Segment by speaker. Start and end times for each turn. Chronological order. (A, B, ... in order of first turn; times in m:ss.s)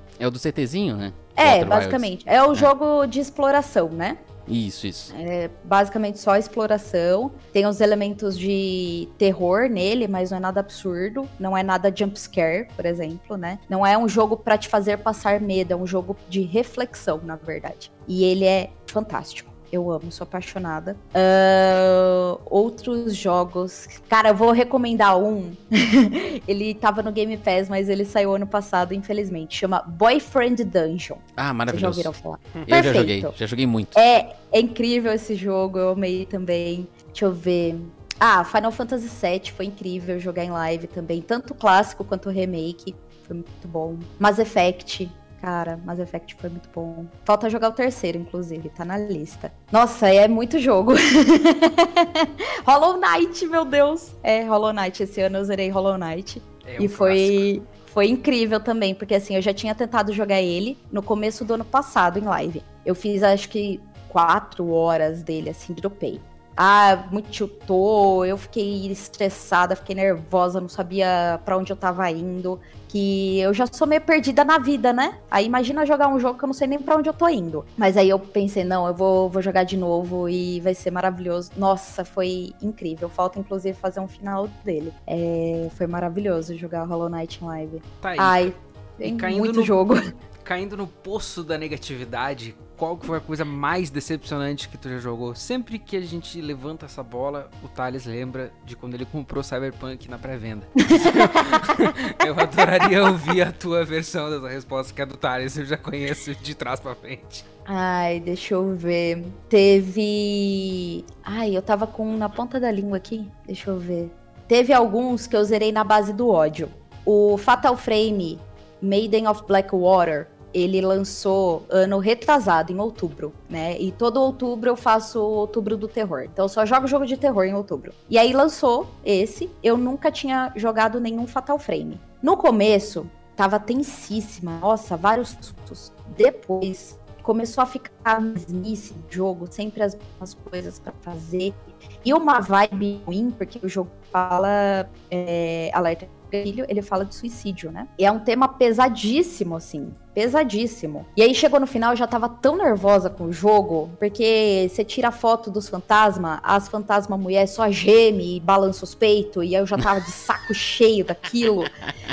0:00.2-0:02.7 A
0:01.4-0:04.2 B
0:04.5-0:05.1 A
0:05.1-0:33.4 B
0:31.4-0:32.1 A
0:32.7-0:34.0 A
0:34.0-1:30.0 B
0:56.6-0:57.5 C
1:28.0-1:29.8 C
1:30.4-1:47.4 C
1:40.8-1:41.9 B
1:47.7-2:41.8 B